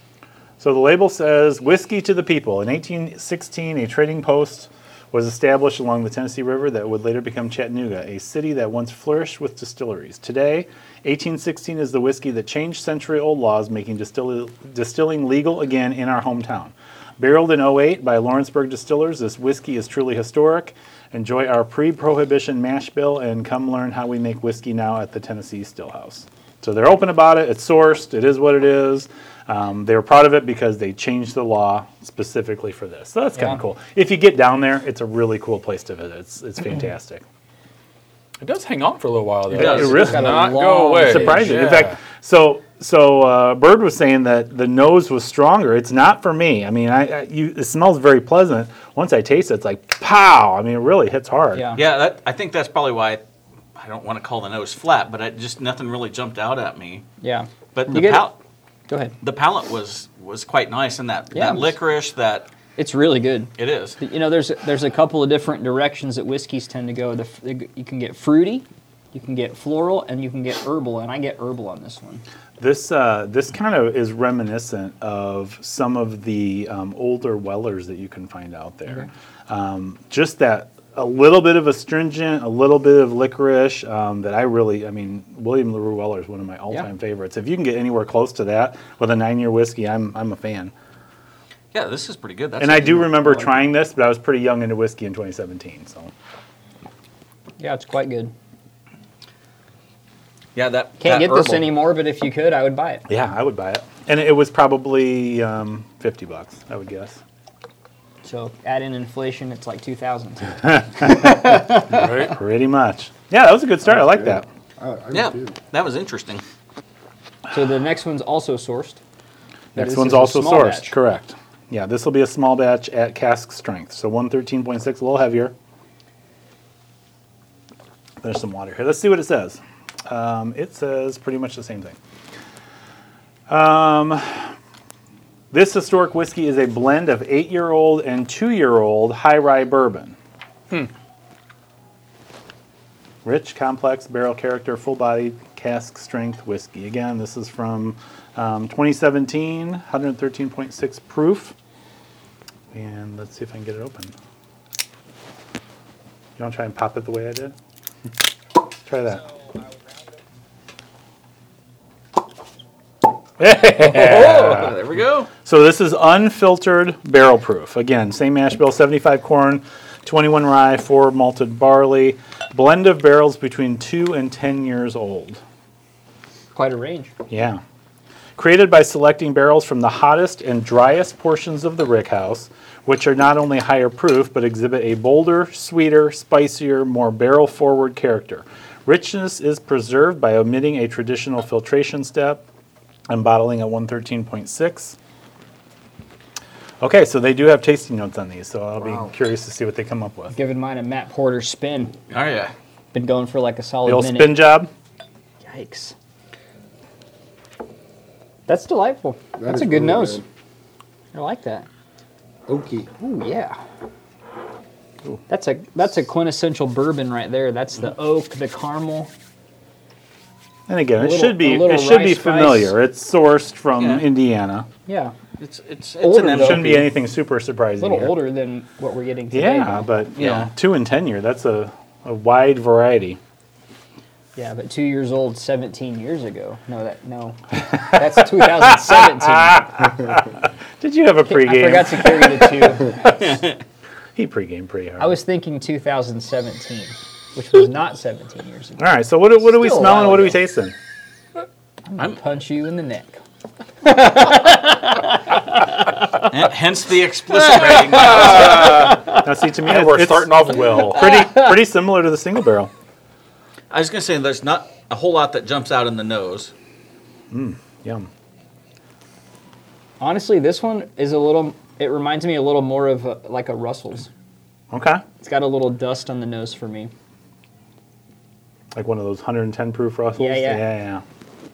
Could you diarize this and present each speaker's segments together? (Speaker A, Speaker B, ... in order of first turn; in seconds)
Speaker A: 0.6-37.2, 39.5-40.4, 41.0-51.7, 72.6-90.7, 92.6-96.1, 103.1-107.2, 110.6-111.6, 112.3-114.5, 119.8-125.5, 128.2-132.0, 133.5-134.5, 135.5-140.2, 143.2-151.6, 152.7-154.1, 156.4-157.6, 158.8-159.2, 163.4-164.8, 165.4-175.4, 177.3-177.6, 178.4-192.4, 193.1-195.0, 196.8-200.3, 203.8-204.7, 220.7-224.7, 226.3-228.2, 229.3-233.2, 238.2-243.2, 244.2-245.2, 248.8-250.8, 259.2-262.7, 267.3-268.1, 274.7-275.0, 278.7-281.0
Speaker B: 38.4-42.0, 111.9-112.4, 257.9-261.1
Speaker C: 39.5-41.7, 51.5-51.8, 57.2-58.3, 58.9-59.1, 61.3-61.8, 62.8-72.2, 97.6-98.3, 101.0-103.1, 108.2-112.3, 117.5-119.0, 119.8-120.9, 176.5-177.1, 200.3-201.9, 202.9-204.5, 205.4-205.9, 208.5-210.2, 211.1-211.7, 213.0-213.6, 215.3-219.1, 221.0-222.8, 224.9-225.2, 226.0-226.9, 227.8-229.9, 234.4-239.7, 241.3-243.0, 245.0-248.9, 249.4-250.4, 251.9-253.2, 253.8-256.3, 257.5-259.2, 260.7-261.5, 270.0-274.1, 275.2-276.9, 280.2-280.7
Speaker D: 39.6-39.9, 51.8-53.2, 53.8-57.0, 57.7-58.4, 59.2-62.5, 63.6-64.0, 91.7-93.1, 100.5-101.8, 115.1-116.4, 163.8-165.3, 202.1-202.5, 223.8-224.1, 225.4-226.9, 230.2-230.5, 243.1-243.5, 256.3-258.9, 263.7-266.5
Speaker E: 113.8-115.6, 209.4-210.2, 212.5-212.9